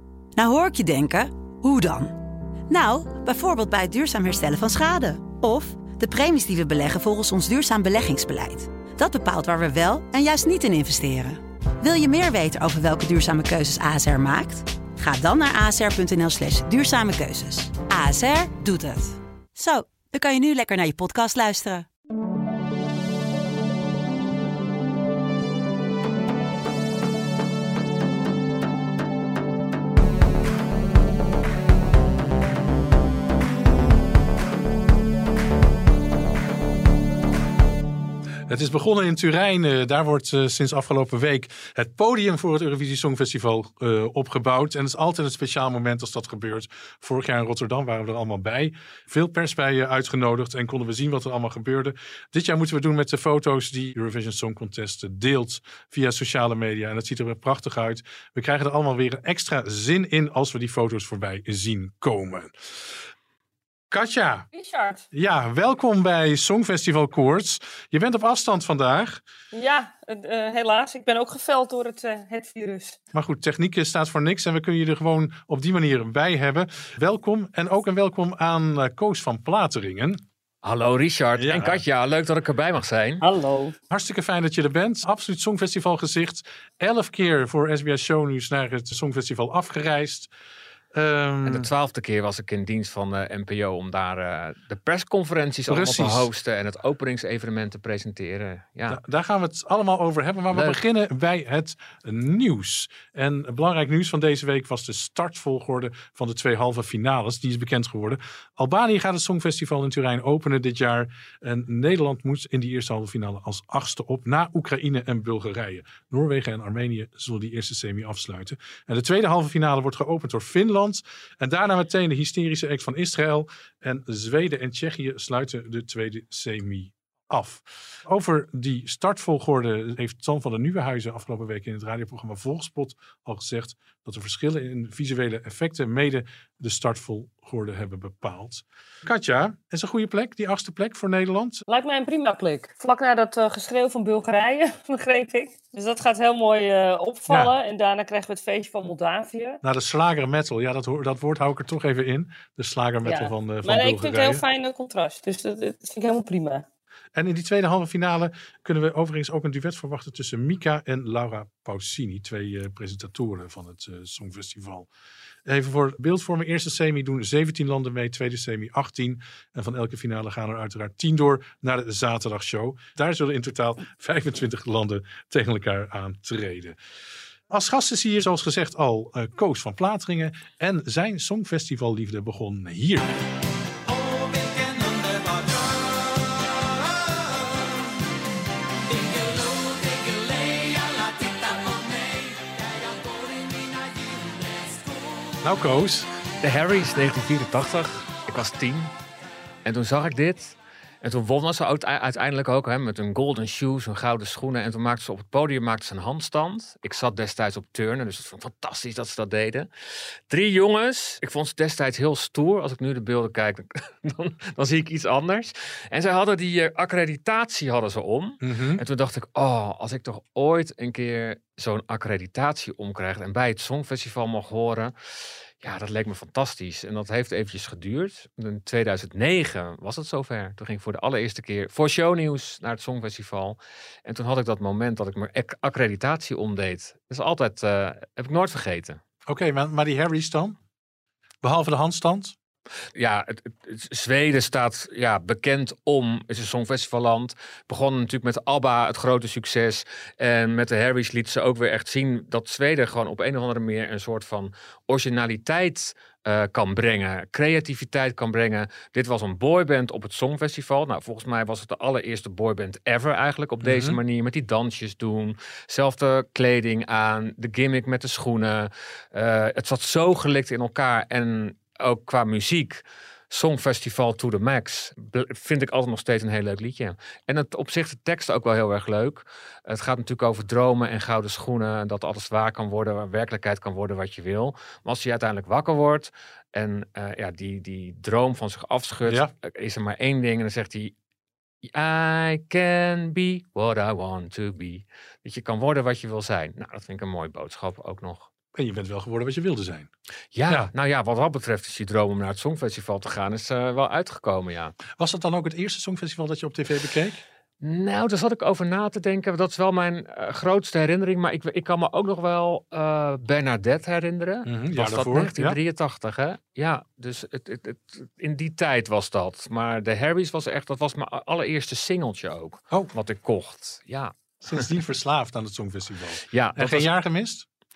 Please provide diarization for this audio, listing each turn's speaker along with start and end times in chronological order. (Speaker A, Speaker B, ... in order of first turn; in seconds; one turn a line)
Speaker A: 0.3-2.1
Speaker A: 2.7-21.9
Speaker B: 38.5-63.0
Speaker B: 63.9-64.5
Speaker C: 64.5-65.0
Speaker B: 65.1-69.2
Speaker C: 69.5-73.0
Speaker B: 73.1-80.2
Speaker D: 80.6-83.2
Speaker B: 81.3-81.8
Speaker C: 83.2-83.8
Speaker B: 83.9-90.3
Speaker B: 90.9-91.7
Speaker D: 91.4-99.0
Speaker B: 95.7-96.3
Speaker B: 98.9-141.6
Speaker D: 100.5-100.8
Speaker C: 141.7-149.6
Speaker B: 147.3-147.5
Speaker B: 149.6-154.4
Speaker C: 153.0-156.6
Speaker B: 157.1-164.9
Speaker B: 165.4-176.8
Speaker B: 177.5-183.1
Speaker B: 195.4-196.1
Speaker D: 196.4-198.9
Speaker D: 199.6-209.7
Speaker D: 210.3-239.0
Speaker B: 218.4-218.8
Speaker B: 239.2-240.6
Speaker B: 241.4-242.3
Speaker D: 242.9-290.9
Speaker B: 263.6-264.0
Speaker B: 289.0-289.3
Speaker D: 291.7-298.3
Speaker B: 298.5-299.9
Speaker D: 300.3-304.8
Speaker B: 304.9-307.2
Speaker D: 307.6-324.6
Speaker B: 314.4-315.6
Speaker B: 324.4-327.4
Speaker D: 326.3-326.9